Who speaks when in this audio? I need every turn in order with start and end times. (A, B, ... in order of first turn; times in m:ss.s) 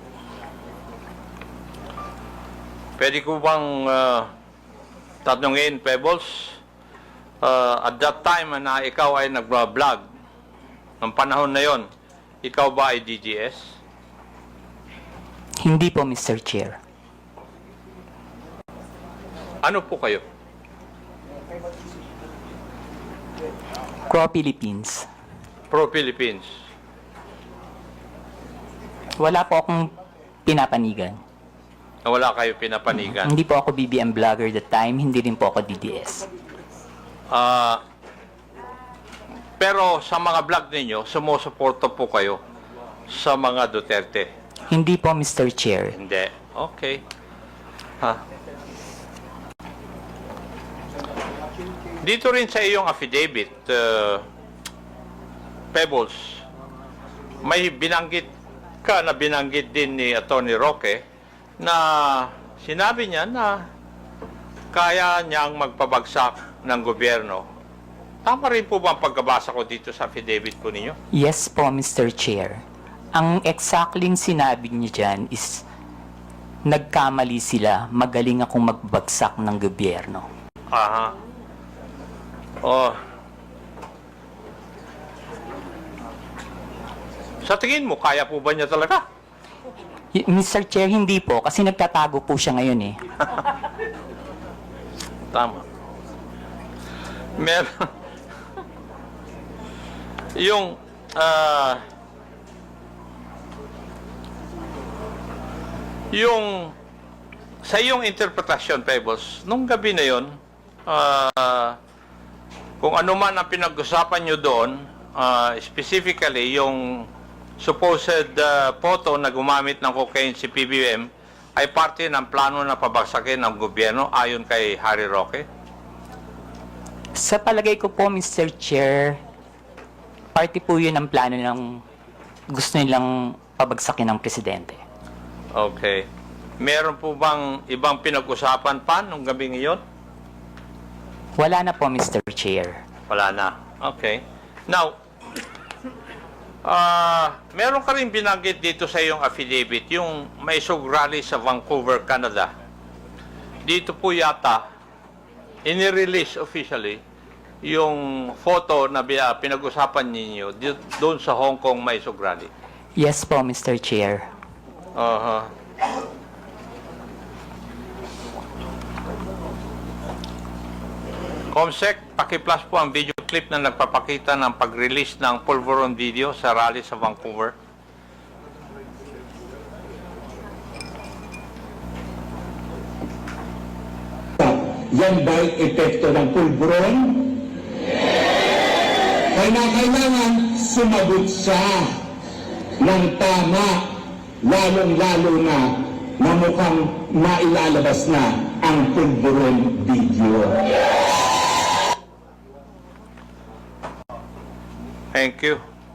0:03.0-0:04.3 A
0:05.2-0:06.6 A
0:07.4-0:10.0 A
0:11.0-0:11.8 A
0:12.4-0:13.7 A
0:15.6-0:16.8 B
0:19.6-0:20.2 A
0:24.1-0:25.0 B
0:25.7-0:26.5 A
0:29.2-0:29.9 B
0:30.4-0:31.2 B
0:32.0-0:33.3 A
0:33.0-0:36.2 B
0:37.3-0:37.8 A
0:39.6-0:42.4 A
0:43.1-0:44.3 A
0:44.7-0:46.0 B
0:45.9-0:47.0 A
0:52.0-0:54.2 A
0:55.7-0:56.4 A
0:57.4-0:58.3 A
0:58.8-1:01.0 A
1:01.6-1:03.6 A
1:04.7-1:07.4 A
1:08.2-1:11.0 A
1:11.1-1:12.6 B
1:13.1-1:15.6 B
1:16.6-1:20.2 B
1:20.7-1:21.1 A
1:22.6-1:23.0 A
1:27.4-1:29.0 A
1:30.1-1:33.0 B
1:35.3-1:35.6 A
1:37.4-1:37.8 A
1:40.4-1:41.8 A
1:46.1-1:46.7 A
1:47.6-1:50.4 A
1:50.9-1:51.8 A
1:52.8-1:57.1 A
1:57.6-2:05.4 A
2:07.2-2:09.2 B
2:10.3-2:11.8 B
2:12.5-2:14.8 B
2:15.5-2:16.0 A
2:16.6-2:19.8 A
2:21.4-2:22.8 B
2:23.1-2:24.9 A
2:26.6-2:32.5 A
2:33.6-2:34.6 A
2:35.6-2:37.0 A
2:37.6-2:42.5 A
2:43.0-2:44.2 B
2:44.9-2:45.5 A
2:51.5-2:57.5 A
3:04.4-3:07.4 C
3:09.3-3:11.8 C
3:12.8-3:13.8 C
3:14.4-3:20.6 C
3:25.1-3:25.6 A